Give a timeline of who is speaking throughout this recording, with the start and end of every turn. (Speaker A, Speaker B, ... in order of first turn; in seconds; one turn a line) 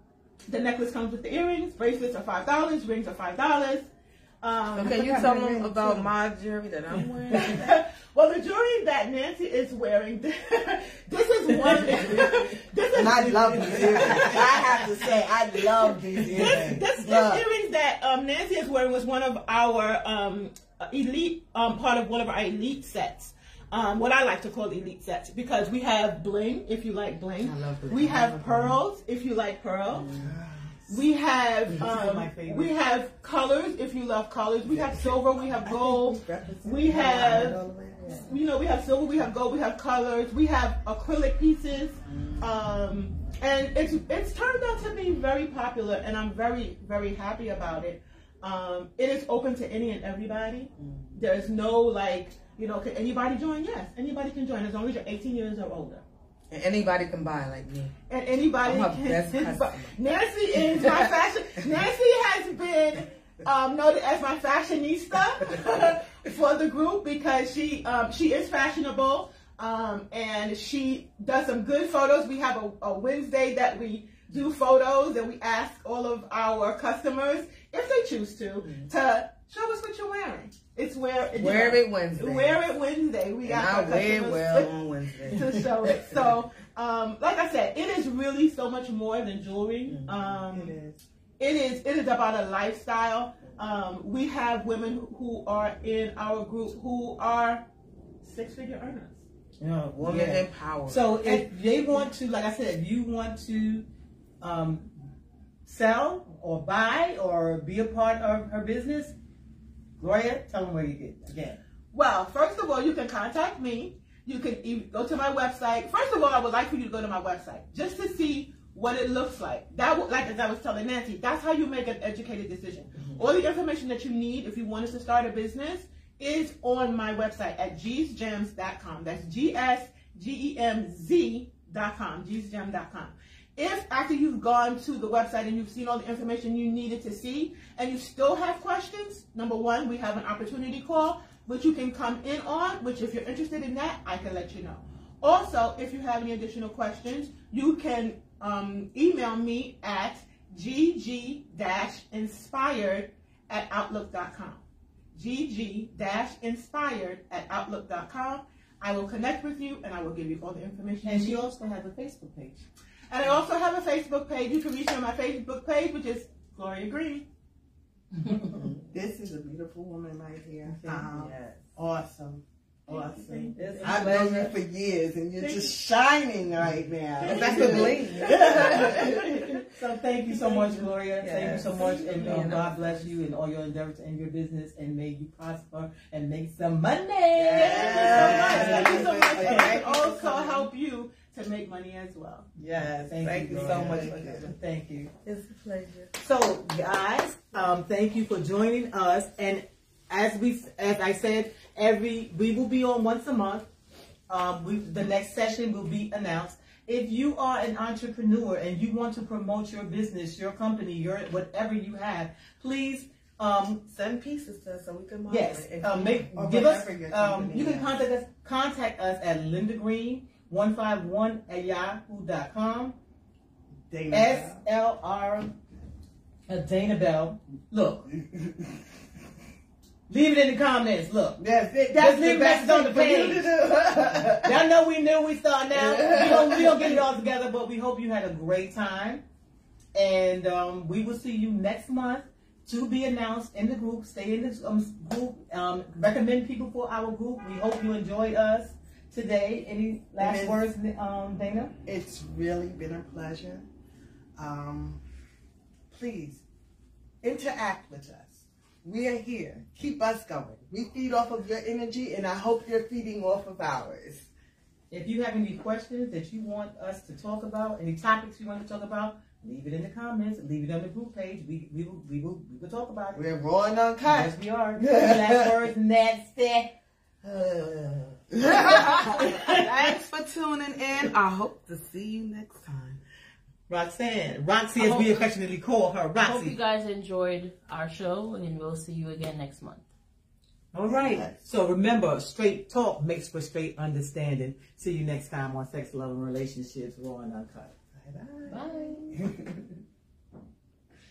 Speaker A: 0.5-5.5
Speaker B: 4.7-7.8
Speaker C: 4.9-6.1
Speaker D: 6.9-7.3
Speaker A: 7.3-15.0
Speaker C: 12.9-17.4
Speaker D: 16.2-16.6
Speaker A: 16.2-30.2
Speaker B: 27.4-28.8
Speaker B: 29.9-30.4
Speaker C: 30.1-30.9
Speaker A: 30.9-56.0
Speaker D: 31.8-32.7
Speaker C: 34.7-38.3
Speaker B: 50.8-51.2
Speaker B: 56.5-57.9
Speaker A: 58.1-90.8
Speaker B: 58.6-60.0
Speaker B: 60.6-61.1
Speaker B: 78.6-78.9
Speaker B: 81.3-82.7
Speaker B: 83.4-86.3
Speaker B: 89.9-90.9
Speaker A: 91.4-97.7
Speaker A: 98.2-99.2
Speaker D: 99.6-103.9
Speaker B: 100.0-101.2
Speaker D: 104.4-104.9
Speaker D: 105.7-109.1
Speaker D: 110.0-111.6
Speaker A: 111.9-154.6
Speaker A: 155.1-161.5
Speaker D: 161.0-162.7
Speaker A: 163.1-167.3
Speaker D: 168.2-168.6
Speaker B: 168.5-168.8
Speaker C: 168.9-179.5
Speaker D: 170.8-171.1
Speaker B: 171.0-171.6
Speaker A: 172.9-173.9
Speaker D: 173.6-174.5
Speaker B: 173.7-174.5
Speaker D: 177.2-190.7
Speaker B: 177.2-179.2
Speaker B: 180.6-183.1
Speaker C: 182.1-182.6
Speaker B: 187.3-190.2
Speaker A: 187.5-192.5
Speaker C: 187.6-189.8
Speaker B: 192.6-194.6
Speaker D: 192.8-195.1
Speaker C: 193.5-194.5
Speaker B: 195.2-196.1
Speaker D: 196.2-203.7
Speaker D: 204.3-213.8
Speaker B: 213.8-216.3
Speaker D: 215.3-223.0
Speaker C: 216.3-217.9
Speaker C: 223.9-224.6
Speaker D: 224.1-225.6
Speaker D: 226.5-228.1
Speaker D: 230.1-231.4
Speaker C: 231.4-234.6
Speaker D: 231.9-233.6
Speaker D: 234.2-239.2
Speaker C: 235.8-237.0
Speaker D: 239.9-251.8
Speaker C: 250.2-250.6
Speaker C: 251.8-253.7
Speaker C: 254.4-255.0
Speaker C: 255.9-256.4
Speaker C: 257.2-264.3
Speaker D: 264.9-273.2
Speaker B: 273.2-274.3
Speaker C: 273.2-273.9
Speaker D: 274.1-276.7
Speaker B: 277.2-283.0
Speaker C: 278.4-279.3
Speaker D: 278.7-279.6
Speaker D: 283.7-286.6
Speaker E: 284.8-285.2
Speaker E: 286.2-289.9
Speaker D: 290.7-298.0
Speaker C: 290.9-291.3
Speaker E: 298.5-299.2
Speaker C: 299.1-299.4